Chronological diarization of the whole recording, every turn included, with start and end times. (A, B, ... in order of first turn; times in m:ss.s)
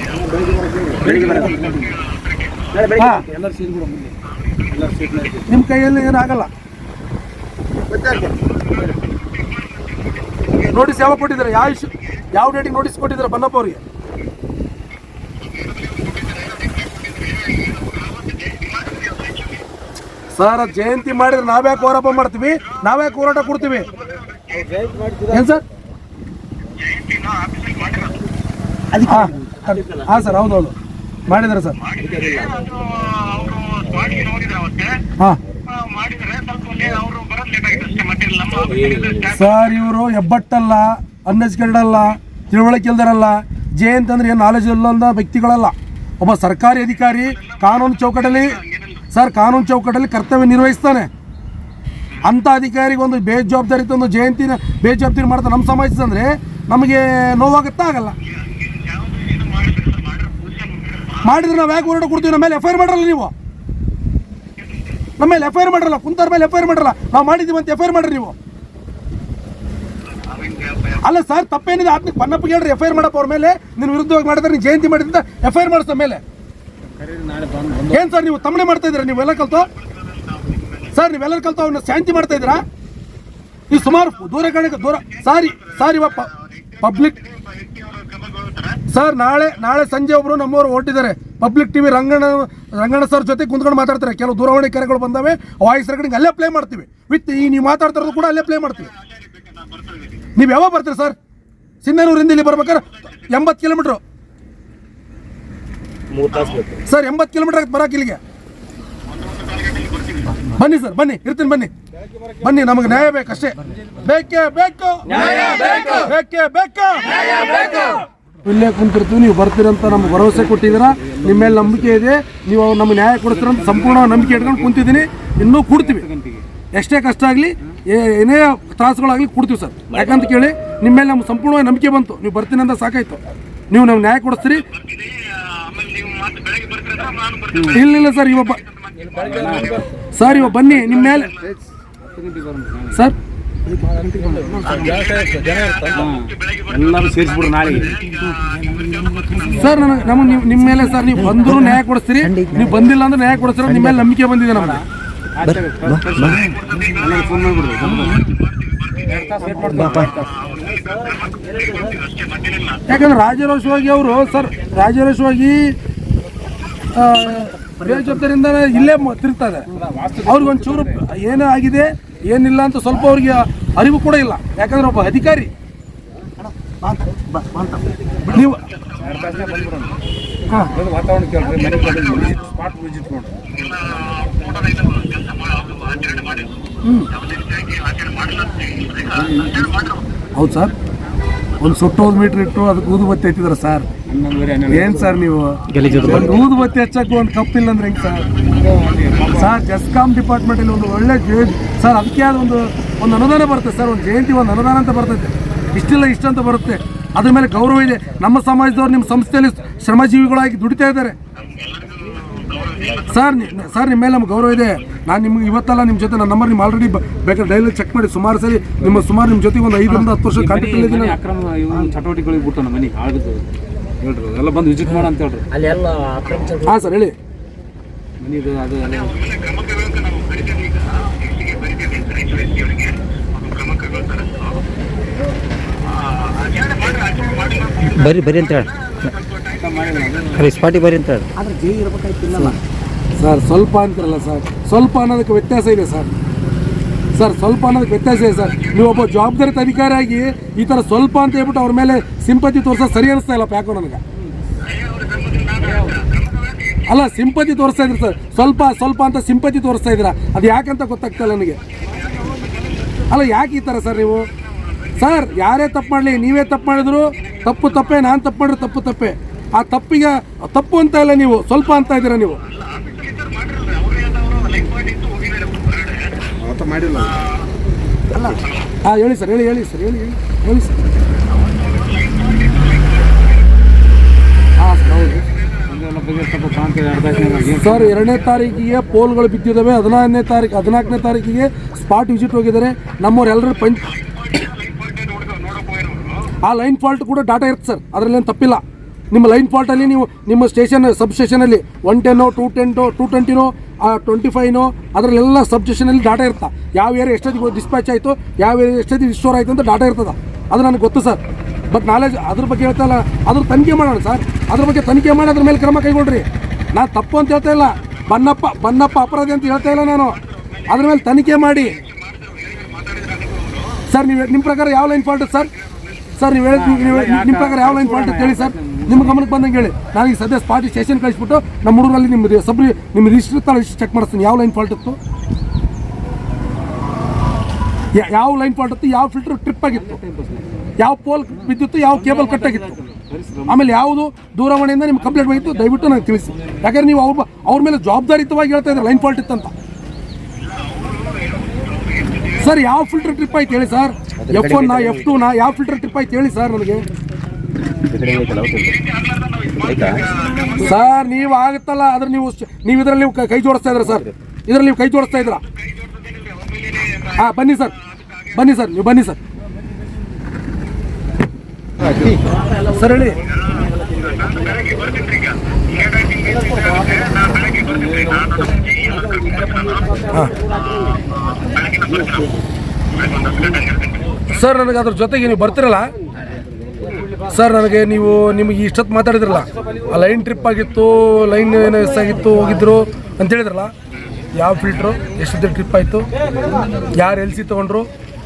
0:00.2-0:02.0 A
0:01.1-0:01.6 B
0:02.8-0:04.2 A
0:03.0-0:03.2 C
0:04.7-0:05.4 A
0:05.5-0:06.5 C
0:10.7-0:13.8 C
0:20.3-0:23.9 C
0:24.5-0:25.2 D
0:25.3-0:25.6 C
0:29.0-0:30.8 C
0:31.3-0:31.8 C
0:32.0-0:32.8 D
0:33.9-0:34.8 D
0:36.1-0:39.2 D
0:39.2-0:51.1 C
0:52.2-0:58.2 C
0:59.5-1:00.7 D
1:01.2-1:03.3 C
1:05.2-1:08.4 C
1:11.0-1:16.2 C
1:16.9-1:18.1 A
1:17.9-1:19.7 C
1:20.9-1:22.6 C
1:23.7-1:27.2 C
1:28.9-1:38.9 C
1:40.4-1:41.2 C
1:41.8-1:44.0 C
1:46.2-1:46.6 D
1:46.8-1:48.2 C
1:50.5-1:51.7 C
1:52.4-2:06.1 C
2:00.0-2:02.0 A
2:03.3-2:04.9 A
2:05.7-2:06.5 A
2:06.7-2:13.2 C
2:13.7-2:14.6 C
2:15.8-2:17.4 D
2:17.5-2:17.8 A
2:17.7-2:18.6 C
2:19.1-2:20.8 A
2:20.1-2:21.3 C
2:22.0-2:23.1 A
2:24.0-2:25.2 A
2:24.8-2:25.8 D
2:25.9-2:28.0 A
2:28.8-2:30.3 A
2:29.5-2:34.8 C
2:31.0-2:32.8 B
2:33.6-2:34.1 B
2:34.5-2:34.8 A
2:35.4-2:38.3 A
2:35.4-2:36.7 B
2:39.1-2:40.5 A
2:39.7-2:40.3 B
2:42.9-2:45.8 C
2:46.9-2:49.7 C
2:49.7-2:51.0 A
2:50.3-2:55.5 C
2:56.8-2:57.7 C
2:58.3-2:58.6 C
2:59.0-3:00.0 A
3:00.7-3:03.4 A
3:06.8-3:07.1 C
3:09.0-3:09.8 A
3:10.4-3:10.7 C
3:11.6-3:13.9 C
3:14.1-3:15.2 A
3:14.7-3:18.3 C
3:15.7-3:16.4 B
3:15.9-3:16.3 A
3:18.5-3:19.6 A
3:19.4-3:31.2 C
3:33.0-3:41.2 C
3:40.3-3:45.6 A
3:45.6-3:46.6 D
3:46.6-3:47.2 C
3:48.2-3:49.3 A
3:57.8-3:59.1 B
3:59.5-4:00.5 A
4:00.4-4:01.3 B
4:01.4-4:02.5 A
4:01.6-4:02.0 D
4:03.2-4:06.1 C
4:07.1-4:14.0 C
4:15.6-4:16.1 A
4:16.9-4:21.6 C
4:23.1-4:24.3 C
4:25.0-4:32.4 C
4:33.3-4:35.6 D
4:38.1-4:40.8 C
4:44.6-4:45.2 C
4:45.6-4:48.0 A
4:47.6-4:53.9 C
4:54.9-4:56.0 D
4:56.4-5:21.8 C
5:23.0-5:23.3 D
5:23.9-5:25.5 C
5:26.2-5:35.0 C
5:26.5-5:29.3 A
5:37.9-5:40.0 C
5:39.7-5:40.7 A
5:40.8-5:42.8 C
5:41.4-5:43.8 A
5:43.5-5:49.5 C
5:45.1-5:46.5 A
5:52.4-5:56.9 C
5:54.3-5:54.7 B
5:57.9-5:58.8 B
5:59.6-6:00.0 B
6:00.6-6:05.4 C
6:07.1-6:07.7 C
6:08.3-6:09.2 C
6:12.6-6:13.2 C
6:14.2-6:14.9 D
6:16.2-6:16.6 D
6:17.5-6:18.7 A
6:24.3-6:25.9 C
6:27.3-6:33.7 C
6:34.4-6:36.1 C
6:36.9-6:37.9 C